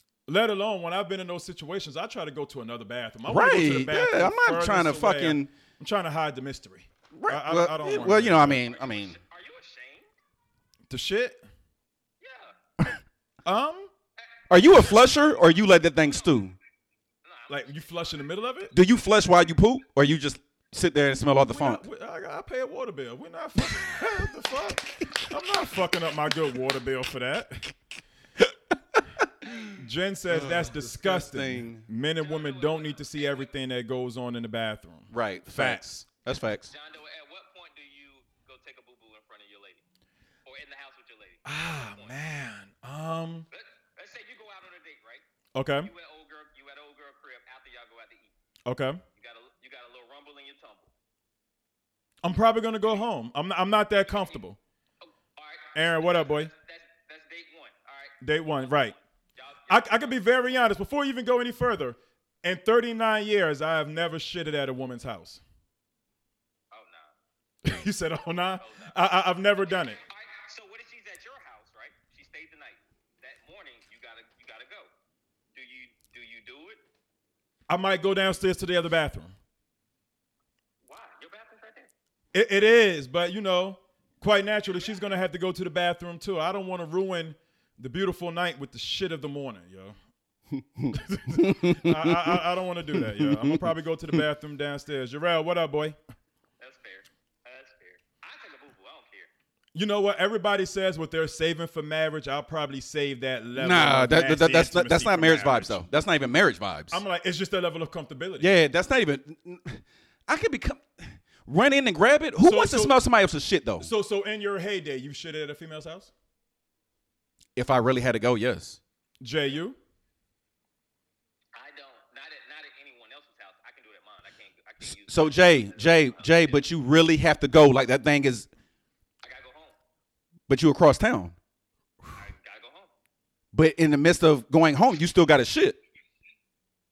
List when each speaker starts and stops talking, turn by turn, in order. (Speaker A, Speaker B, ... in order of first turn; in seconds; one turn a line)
Speaker A: 0.3-8.6
Speaker B: 3.3-5.5
Speaker B: 7.1-9.2
Speaker C: 8.3-10.1
Speaker A: 10.9-11.4
Speaker C: 12.2-12.6
Speaker A: 13.4-13.9
Speaker C: 14.2-15.3
Speaker B: 14.5-16.5
Speaker C: 16.0-16.3
Speaker C: 17.2-18.3
Speaker A: 17.5-18.7
Speaker B: 18.7-21.8
Speaker A: 21.4-27.7
Speaker B: 28.9-29.5
Speaker A: 29.7-35.8
Speaker B: 30.3-31.9
Speaker C: 32.2-33.5
Speaker B: 35.1-36.7
Speaker C: 36.5-39.8
Speaker C: 40.4-42.1
Speaker A: 41.4-43.5
Speaker C: 43.5-45.2
Speaker A: 45.5-45.9
Speaker C: 45.8-48.3
Speaker A: 48.6-49.0
Speaker C: 49.2-50.9
Speaker A: 52.2-54.6
Speaker C: 54.1-54.4
Speaker C: 55.0-58.2
Speaker A: 55.7-56.5
Speaker A: 58.2-59.0
Speaker C: 59.4-60.1
Speaker A: 59.7-65.4
Speaker C: 66.7-67.1
Speaker A: 67.6-70.0
Speaker C: 68.4-68.9
Speaker C: 69.8-74.9
Speaker C: 75.5-76.8
Speaker A: 77.7-79.3
Speaker C: 80.8-81.9
Speaker A: 82.3-90.0
Speaker B: 90.6-92.4
Speaker A: 90.9-96.0
Speaker B: 93.0-93.6
Speaker C: 96.6-99.3
Speaker A: 99.7-105.8
Speaker B: 103.6-107.0
Speaker A: 106.9-108.6
Speaker B: 108.4-113.9
Speaker A: 112.4-113.0
Speaker A: 113.8-116.1
Speaker B: 117.5-118.8
Speaker A: 119.2-119.8
Speaker C: 121.5-126.6
Speaker B: 124.8-128.5
Speaker C: 129.2-129.7
Speaker B: 130.5-131.3
Speaker C: 132.1-132.9
Speaker B: 133.5-135.8